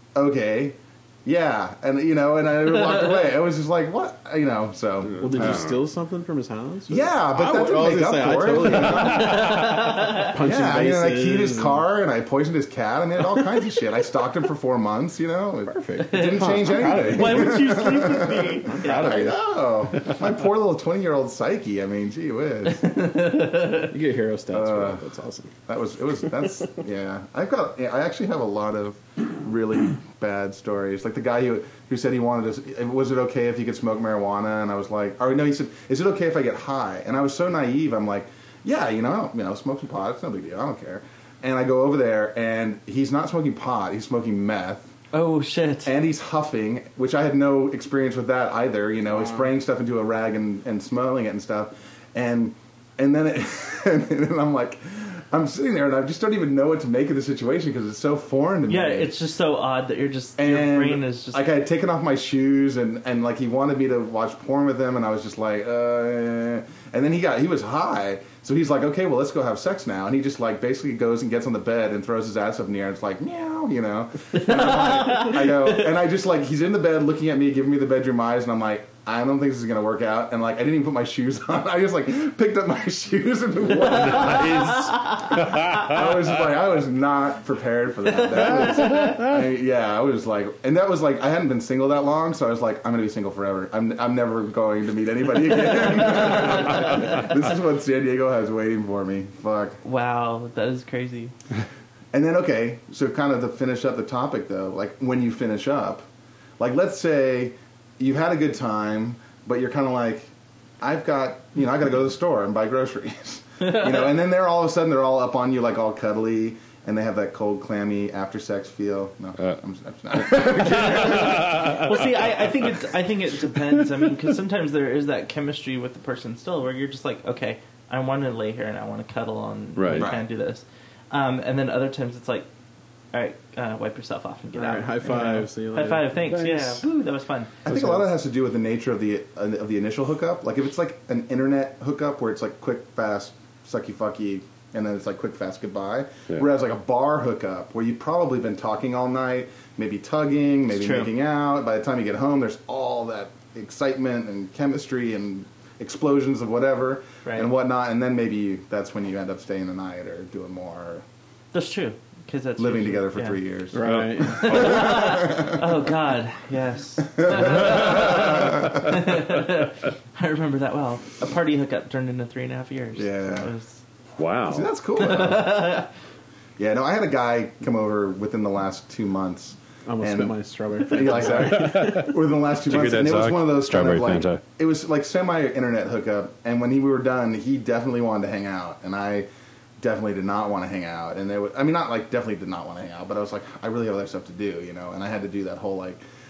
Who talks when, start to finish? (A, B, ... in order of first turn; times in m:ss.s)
0:00.2-0:05.6 A
0:05.2-0:11.8 B
0:05.2-0:05.8 C
0:06.9-0:23.1 A
0:09.0-0:10.3 D
0:16.0-0:19.3 D
0:16.1-0:18.1 B
0:18.6-0:19.4 B
0:22.8-0:23.9 D
0:23.8-0:25.5 B
0:24.5-0:25.0 A
0:25.7-0:44.9 A
0:45.1-0:45.9 D
0:45.8-0:59.1 A
0:58.7-1:01.4 D
1:00.4-1:39.8 A
1:14.4-1:15.5 D
1:23.8-1:26.0 C
1:24.3-1:25.0 D
1:39.8-1:41.3 D
1:42.1-1:46.0 A
1:46.6-1:50.3 A
1:50.8-2:01.8 A
2:00.3-2:01.8 C
2:00.5-2:12.5 D
2:09.8-2:10.1 C
2:10.0-2:10.2 A
2:13.1-2:17.5 D
2:14.5-2:16.2 B
2:16.3-2:16.8 C
2:17.6-2:41.0 A
2:17.7-2:18.0 C
2:30.7-2:31.1 D
2:37.2-2:37.5 D
2:41.5-2:43.4 D
2:42.6-2:45.7 A
2:43.7-2:44.6 B
2:43.8-2:45.3 C
2:44.3-2:53.8 D
2:47.2-2:48.8 A
2:53.0-2:53.5 A
2:54.2-2:54.7 C
2:54.5-2:55.8 A
2:55.0-2:55.9 D
2:56.6-3:09.3 A
2:59.9-3:02.1 B
3:01.5-3:02.1 C
3:02.7-3:04.4 C
3:09.8-3:16.0 A